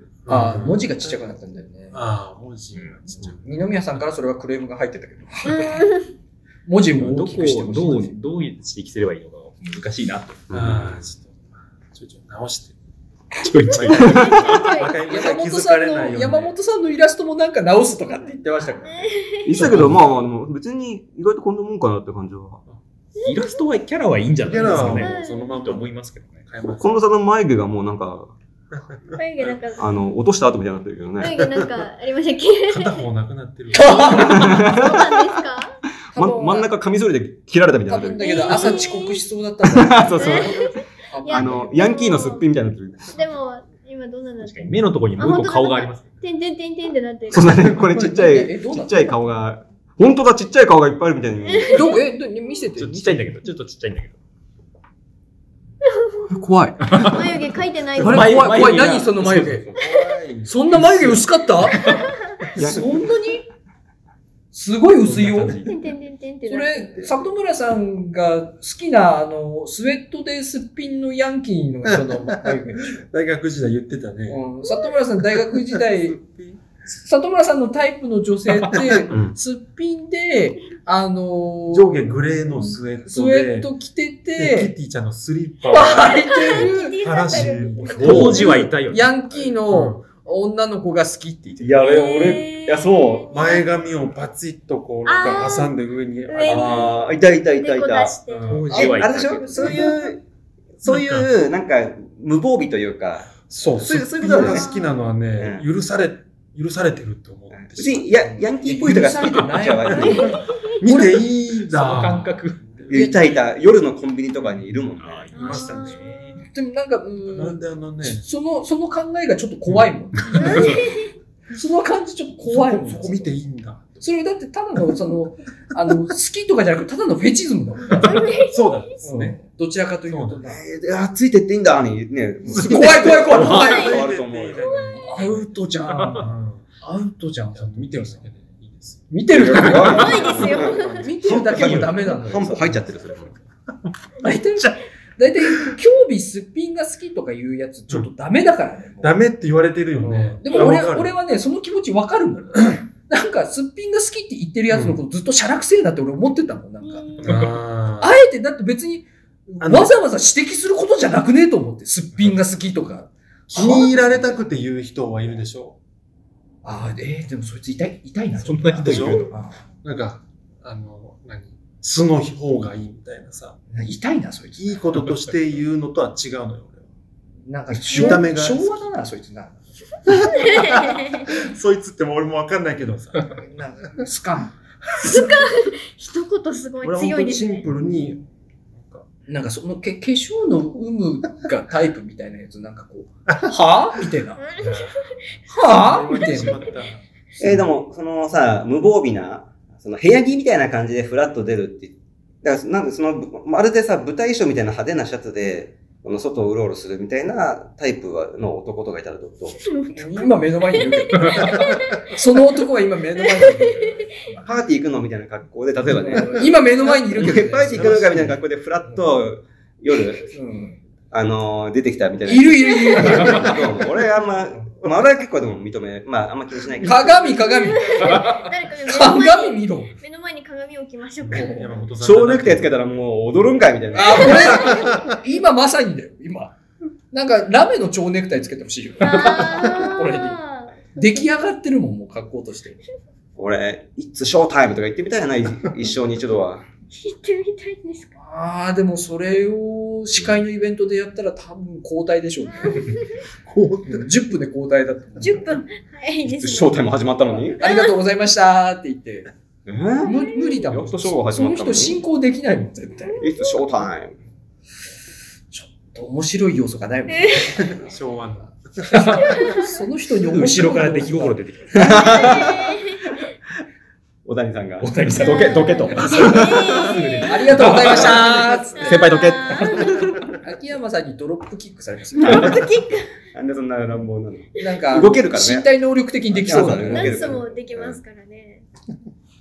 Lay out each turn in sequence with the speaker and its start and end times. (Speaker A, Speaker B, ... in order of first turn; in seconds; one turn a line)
Speaker A: 0.2-1.2
Speaker B: 0.3-2.0
Speaker A: 1.9-3.4
Speaker B: 3.1-5.8
Speaker C: 5.5-6.0
Speaker B: 6.7-8.1
Speaker D: 7.0-10.5
Speaker E: 10.5-11.0
Speaker A: 10.5-11.4
Speaker A: 11.9-12.7
Speaker D: 13.4-14.4
Speaker C: 13.7-15.0
Speaker E: 13.9-14.6
Speaker A: 14.1-16.5
Speaker B: 15.0-19.1
Speaker C: 18.8-20.0
Speaker E: 19.4-22.6
Speaker A: 19.5-20.0
Speaker C: 23.2-23.6
Speaker D: 23.2-26.4
Speaker A: 24.4-25.9
Speaker B: 24.6-25.0
Speaker C: 25.0-25.6
Speaker A: 26.5-26.9
Speaker E: 26.7-28.3
Speaker A: 28.9-29.1
Speaker C: 29.1-29.9
Speaker E: 29.8-31.6
Speaker C: 31.2-33.0
Speaker A: 32.7-34.4
Speaker C: 33.7-35.8
Speaker B: 33.7-34.5
Speaker E: 34.1-35.4
Speaker B: 36.1-36.7
Speaker E: 36.1-38.8
Speaker B: 37.9-41.8
Speaker C: 38.2-39.2
Speaker E: 39.7-43.3
Speaker C: 40.1-40.7
Speaker C: 41.2-42.4
Speaker C: 43.1-47.8
Speaker D: 44.4-46.1
Speaker E: 47.3-52.0
Speaker B: 47.8-49.1
Speaker C: 51.5-52.0
Speaker B: 51.7-53.3
Speaker D: 52.8-54.1
Speaker C: 56.0-56.2
Speaker B: 56.3-57.1
Speaker D: 56.9-57.2
Speaker C: 57.0-58.7
Speaker D: 58.0-59.8
Speaker B: 58.0-59.7
Speaker A: 59.7-61.3
Speaker B: 60.4-61.9
Speaker B: 62.5-63.5
Speaker E: 62.5-62.9
Speaker B: 64.5-65.6
Speaker D: 65.0-65.7
Speaker C: 65.6-67.1
Speaker B: 66.5-73.0
Speaker A: 71.9-74.4
Speaker B: 74.3-76.2
Speaker A: 75.3-76.6
Speaker B: 76.9-82.2
Speaker E: 79.1-79.3
Speaker A: 81.7-83.7
Speaker B: 83.0-84.7
Speaker A: 84.4-88.7
Speaker B: 85.7-91.8
Speaker C: 86.0-88.7
Speaker D: 88.0-89.1
Speaker A: 89.7-90.0
Speaker E: 91.6-93.4
Speaker A: 91.8-92.5
Speaker C: 91.8-93.7
Speaker A: 93.3-97.1
Speaker C: 95.0-96.9
Speaker E: 96.4-98.2
Speaker C: 97.6-99.7
Speaker A: 98.3-98.8
Speaker D: 98.4-99.9
Speaker E: 98.7-100.2
Speaker B: 98.7-100.0
Speaker E: 100.8-104.7
Speaker A: 100.8-101.3
Speaker A: 103.4-108.2
Speaker C: 104.3-105.1
Speaker E: 105.4-105.6
Speaker E: 107.5-110.4
Speaker B: 108.2-111.2
Speaker A: 109.9-113.1
Speaker C: 110.0-110.7
Speaker D: 111.7-112.6
Speaker E: 112.9-115.6
Speaker D: 115.0-116.4
Speaker A: 115.3-116.3
Speaker C: 115.3-116.4
Speaker B: 116.5-120.9
Speaker A: 117.3-118.2
Speaker A: 120.3-120.8
Speaker C: 120.3-121.1
Speaker B: 121.5-123.3
Speaker A: 122.4-124.0
Speaker B: 124.0-128.3
Speaker C: 127.9-128.9
Speaker A: 128.0-129.4
Speaker B: 129.0-130.6
Speaker A: 130.1-130.4
Speaker E: 130.4-134.8
Speaker A: 132.5-135.4
Speaker B: 132.5-134.0
Speaker C: 133.5-133.9
Speaker C: 134.7-135.1
Speaker B: 135.0-138.2
Speaker A: 136.1-136.6
Speaker A: 137.5-140.0
Speaker B: 139.1-142.8
Speaker E: 139.3-143.3
Speaker C: 139.9-141.1
Speaker A: 142.3-142.8
Speaker B: 144.2-149.2
Speaker A: 149.0-151.1
Speaker B: 150.0-157.4
Speaker A: 154.7-155.0
Speaker C: 156.8-157.4
Speaker A: 157.2-158.1
Speaker B: 158.0-164.3
Speaker A: 159.6-159.9
Speaker A: 163.5-165.8
Speaker B: 166.6-169.6
Speaker D: 168.4-169.3
Speaker A: 168.8-173.6
Speaker B: 173.7-174.8
Speaker A: 174.6-176.8
Speaker B: 177.4-179.8
Speaker A: 177.9-178.7
Speaker C: 177.9-178.2
Speaker A: 180.1-183.3
Speaker C: 180.3-181.3
Speaker B: 183.3-185.2
Speaker C: 185.0-187.7
Speaker A: 186.8-189.0
Speaker B: 189.3-194.4
Speaker C: 194.4-194.9
Speaker A: 194.6-195.0
Speaker B: 195.5-196.8
Speaker A: 195.6-197.6
Speaker E: 197.4-209.6
Speaker C: 209.6-212.2
Speaker B: 209.9-214.5
Speaker C: 213.3-213.7
Speaker E: 214.4-220.3
Speaker B: 215.9-219.1
Speaker A: 217.7-218.1
Speaker B: 220.3-220.8
Speaker E: 221.1-227.4
Speaker B: 222.2-223.6
Speaker C: 222.9-223.5
Speaker B: 226.8-229.9
Speaker C: 227.3-231.8
Speaker A: 231.2-232.8
Speaker B: 231.3-231.7
Speaker E: 232.0-234.8
Speaker B: 233.9-236.6
Speaker C: 234.1-234.6
Speaker A: 234.7-235.2
Speaker B: 237.1-240.4
Speaker C: 239.0-240.8
Speaker B: 240.9-242.8
Speaker E: 243.3-246.6
Speaker C: 247.0-248.1
Speaker B: 248.2-252.9
Speaker A: 253.4-254.1
Speaker B: 253.8-255.4
Speaker C: 255.2-256.8
Speaker E: 256.2-257.6
Speaker C: 257.6-257.9
Speaker B: 257.6-259.3
Speaker E: 259.6-262.0
Speaker B: 260.0-263.2
Speaker C: 260.0-260.7
Speaker C: 263.0-263.6
Speaker E: 263.2-264.1
Speaker B: 265.5-267.9
Speaker C: 267.1-267.6
Speaker A: 267.5-269.3
Speaker B: 268.9-271.4
Speaker C: 269.3-269.8
Speaker D: 270.2-272.1
Speaker E: 271.7-272.9
Speaker C: 271.8-273.1
Speaker E: 274.2-280.1
Speaker D: 274.8-276.4
Speaker C: 275.1-277.6
Speaker B: 275.9-276.4
Speaker B: 277.2-279.1
Speaker C: 278.7-280.1
Speaker B: 279.8-282.6
Speaker C: 282.2-283.1
Speaker E: 282.2-282.5
Speaker E: 283.3-285.7
Speaker B: 284.6-287.3
Speaker E: 286.4-288.0
Speaker C: 286.6-288.6